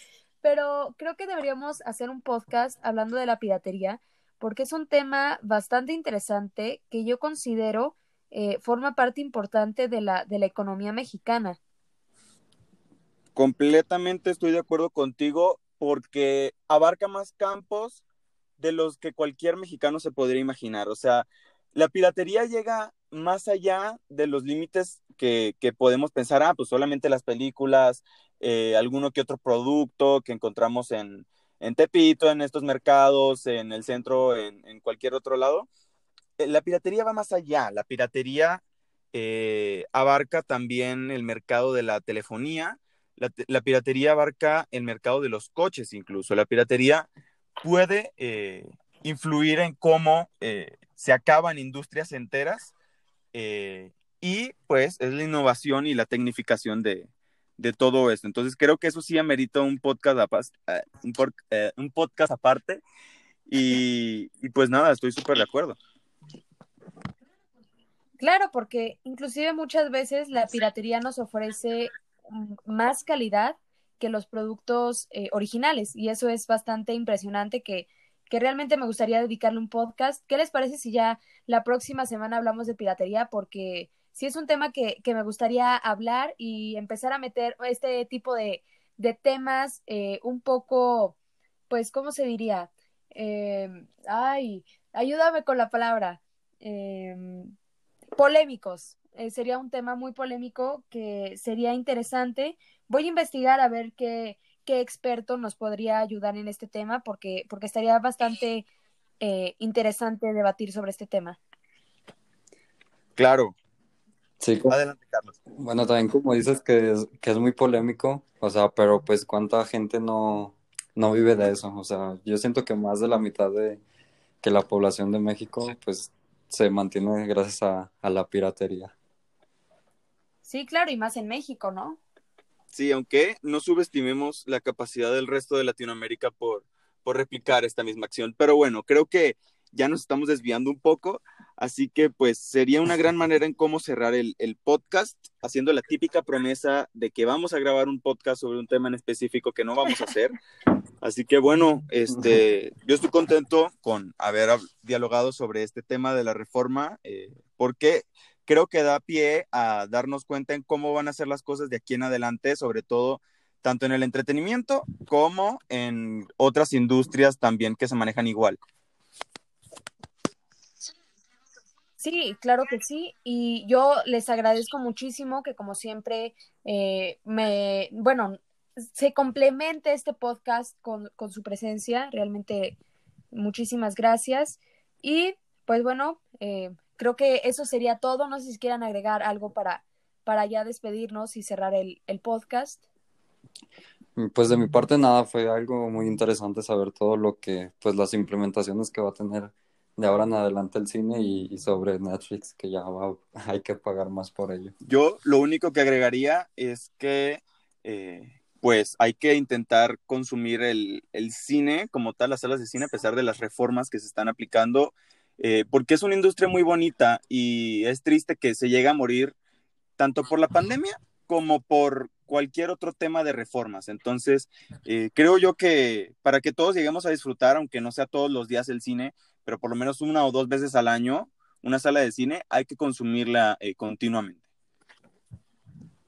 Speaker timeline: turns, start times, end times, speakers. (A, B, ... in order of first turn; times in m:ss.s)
0:00.4-0:11.6 A
0:13.4-0:18.0 B
0:18.6-0:35.7 B
0:36.4-0:38.6 B
0:39.1-0:47.1 B
0:47.6-0:52.7 B
0:53.3-1:02.8 B
1:03.5-1:05.8 B
1:08.2-1:31.2 A
1:31.7-1:37.5 A
1:38.2-1:48.7 A
1:49.2-1:51.4 A
1:53.2-1:53.6 B
1:54.4-1:54.8 C
1:54.7-1:55.4 B
1:55.6-2:03.8 C
2:04.4-2:08.9 C
2:10.5-2:12.0 A
2:12.7-2:30.4 B
2:31.0-2:48.6 B
2:52.0-2:58.4 A
2:59.0-3:02.8 A
3:03.3-3:12.8 A
3:14.2-3:24.7 C
3:24.8-3:39.4 B
3:40.0-3:54.4 B